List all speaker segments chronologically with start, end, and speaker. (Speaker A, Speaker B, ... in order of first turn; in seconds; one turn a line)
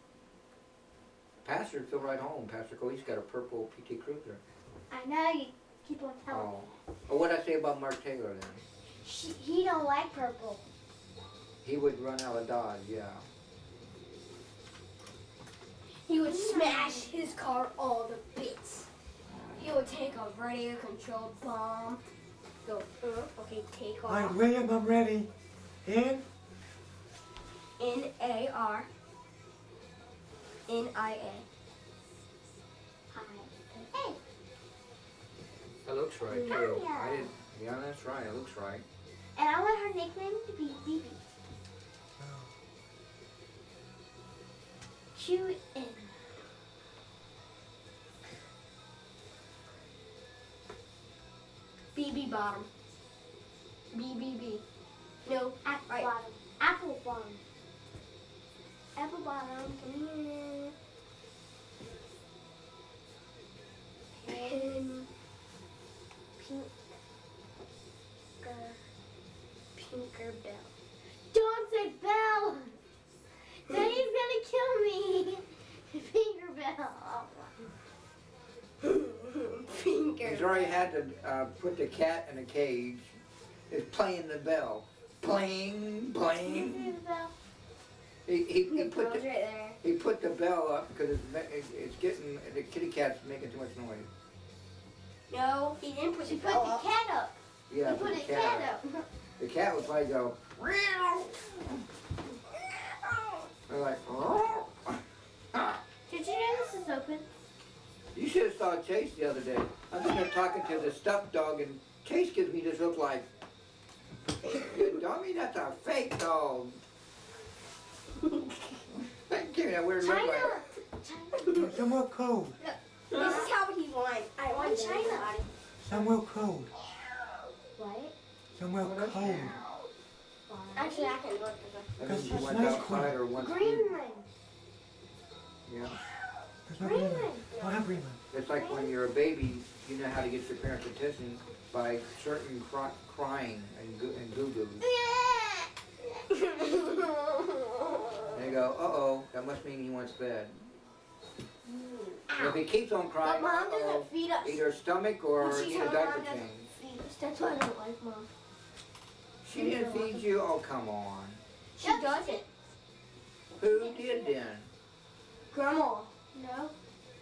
Speaker A: 1.4-4.4
Speaker B: 4.9-6.5
Speaker A: 6.3-8.6
Speaker B: 9.0-10.7
Speaker A: 11.6-13.2
Speaker C: 16.1-18.9
Speaker B: 16.2-17.1
Speaker C: 19.6-22.0
Speaker C: 22.7-24.4
Speaker D: 24.1-25.3
Speaker D: 25.8-26.3
Speaker C: 27.8-28.9
Speaker C: 30.7-31.5
Speaker B: 33.1-34.2
Speaker A: 35.9-38.9
Speaker B: 36.3-37.3
Speaker B: 39.4-41.2
Speaker D: 42.2-42.5
Speaker B: 45.1-46.2
Speaker C: 51.9-52.7
Speaker C: 53.9-54.6
Speaker C: 55.3-56.1
Speaker B: 55.3-57.4
Speaker C: 59.0-60.8
Speaker B: 64.1-64.8
Speaker C: 64.3-65.1
Speaker B: 66.4-66.7
Speaker B: 68.4-68.8
Speaker C: 69.8-70.7
Speaker B: 71.3-72.8
Speaker B: 73.7-77.5
Speaker C: 78.8-80.9
Speaker A: 80.2-83.2
Speaker A: 83.7-87.0
Speaker B: 86.3-87.3
Speaker A: 88.3-89.2
Speaker C: 88.7-89.8
Speaker A: 89.8-94.1
Speaker C: 95.3-96.8
Speaker B: 96.3-99.0
Speaker A: 97.7-98.8
Speaker A: 99.4-101.6
Speaker A: 103.7-105.0
Speaker A: 105.5-105.8
Speaker B: 106.1-107.3
Speaker A: 108.2-113.3
Speaker A: 114.5-116.8
Speaker A: 118.9-120.6
Speaker B: 120.0-121.6
Speaker C: 121.4-121.7
Speaker D: 121.5-122.6
Speaker C: 122.6-125.5
Speaker A: 123.1-123.4
Speaker B: 123.1-123.5
Speaker B: 124.4-125.4
Speaker D: 125.8-126.7
Speaker B: 127.8-128.2
Speaker D: 128.5-129.6
Speaker A: 128.8-129.9
Speaker B: 130.5-131.2
Speaker C: 130.8-132.0
Speaker A: 132.0-133.9
Speaker D: 132.0-133.2
Speaker B: 133.3-134.3
Speaker A: 135.7-136.0
Speaker D: 136.7-138.2
Speaker B: 136.8-137.5
Speaker C: 137.5-137.8
Speaker A: 138.3-144.8
Speaker B: 138.6-138.9
Speaker C: 144.8-148.4
Speaker A: 148.3-150.8
Speaker C: 151.6-152.3
Speaker B: 152.3-152.6
Speaker A: 152.4-156.7
Speaker C: 153.2-154.6
Speaker C: 155.4-158.3
Speaker A: 159.4-161.4
Speaker B: 159.6-160.2
Speaker C: 159.8-160.1
Speaker C: 161.8-162.4
Speaker B: 161.8-162.5
Speaker A: 163.6-164.7
Speaker B: 163.6-164.3
Speaker C: 165.5-166.1
Speaker B: 166.3-166.8